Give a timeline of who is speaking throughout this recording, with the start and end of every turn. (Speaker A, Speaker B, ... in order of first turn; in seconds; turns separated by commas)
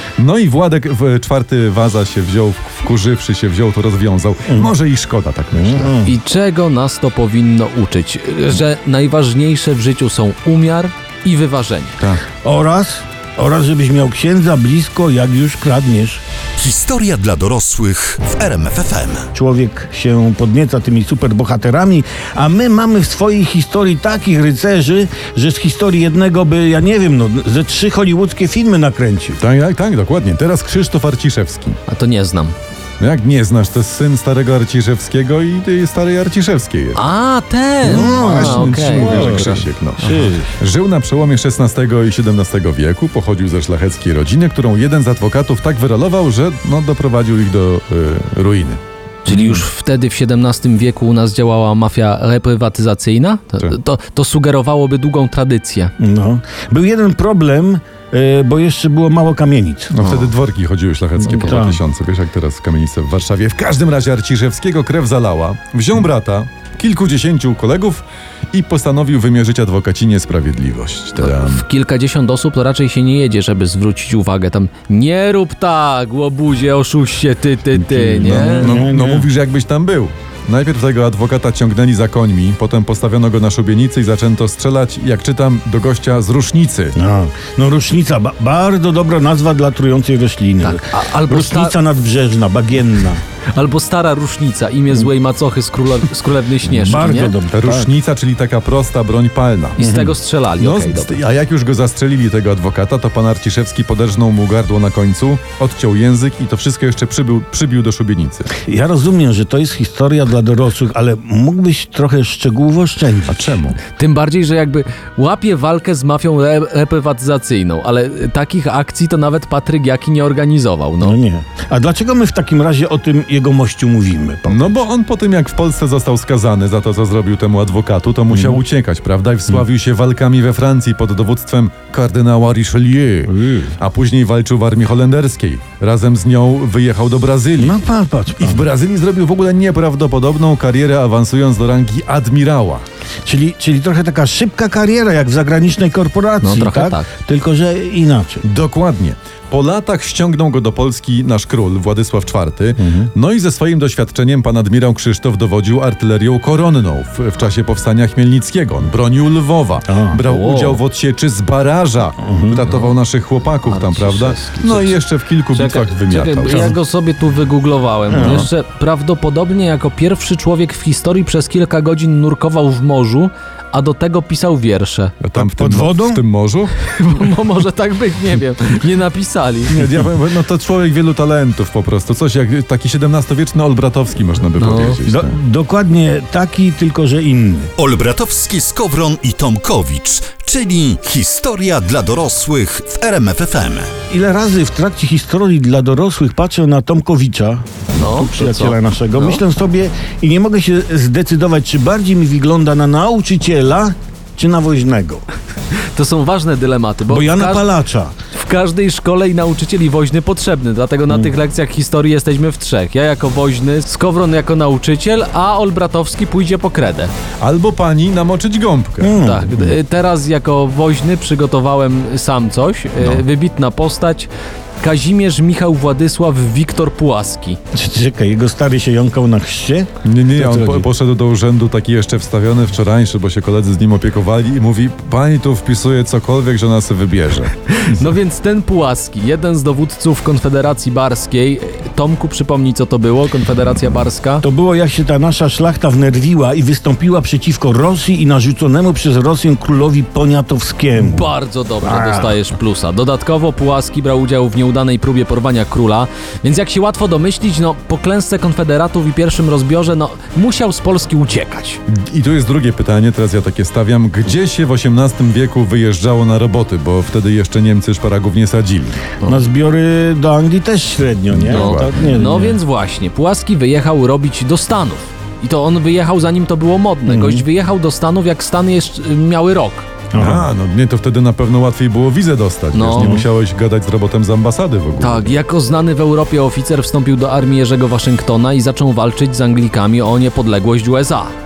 Speaker A: 0.2-6.0, Speaker B: 4.5-4.7, Speaker B: 5.5-6.1, Speaker C: 6.0-11.9, Speaker B: 12.4-16.2, Speaker D: 16.6-19.3, Speaker B: 19.3-29.4, Speaker A: 29.4-31.8, Speaker C: 31.9-32.5, Speaker A: 33.0-37.0, Speaker C: 36.9-40.2, Speaker B: 37.8-40.5, Speaker A: 37.8-48.8, Speaker C: 49.2-55.9, Speaker B: 56.0-60.3, Speaker A: 59.9-71.6, Speaker B: 61.2-61.8, Speaker C: 71.2-78.8, Speaker B: 77.8-79.3, Speaker A: 78.2-87.0, Speaker B: 87.0-93.2, Speaker C: 90.6-91.8, Speaker C: 93.5-97.3, Speaker B: 96.6-97.9, Speaker A: 97.5-99.8, Speaker C: 99.8-101.2, Speaker B: 99.8-100.2, Speaker A: 100.6-108.5, Speaker B: 108.6-113.6, Speaker A: 113.3-113.8, Speaker C: 113.9-121.2, Speaker B: 121.0-124.8, Speaker A: 124.5-137.8, Speaker B: 128.3-128.6, Speaker B: 133.3-133.8, Speaker B: 137.6-138.7, Speaker A: 138.4-142.8, Speaker B: 143.2-148.4, Speaker C: 146.4-147.1, Speaker A: 148.4-166.8, Speaker B: 152.8-153.1, Speaker B: 159.9-160.2, Speaker C: 160.3-160.8, Speaker B: 162.2-162.6, Speaker C: 163.6-165.0, Speaker C: 165.5-175.1, Speaker B: 168.1-168.4, Speaker A: 168.1-168.5, Speaker A: 175.2-176.7, Speaker B: 175.3-176.2, Speaker C: 176.8-179.8, Speaker A: 179.7-185.4, Speaker C: 184.6-185.0, Speaker B: 185.1-187.7, Speaker D: 187.8-193.9, Speaker B: 194.1-205.2, Speaker C: 198.0-199.4, Speaker C: 205.9-207.7, Speaker B: 207.1-208.1, Speaker C: 208.3-217.1, Speaker A: 217.4-219.2, Speaker B: 219.0-219.8, Speaker C: 219.1-224.3, Speaker C: 224.8-227.6, Speaker B: 227.7-230.9, Speaker A: 230.0-237.5, Speaker C: 237.7-244.4, Speaker B: 244.4-252.4, Speaker C: 251.0-261.8, Speaker A: 261.9-269.0, Speaker B: 269.2-272.6, Speaker A: 271.3-272.0, Speaker C: 271.5-279.9, Speaker B: 277.1-277.4, Speaker B: 280.1-280.5, Speaker A: 280.1-285.4, Speaker C: 282.7-283.2, Speaker B: 283.0-283.2, Speaker C: 285.0-291.3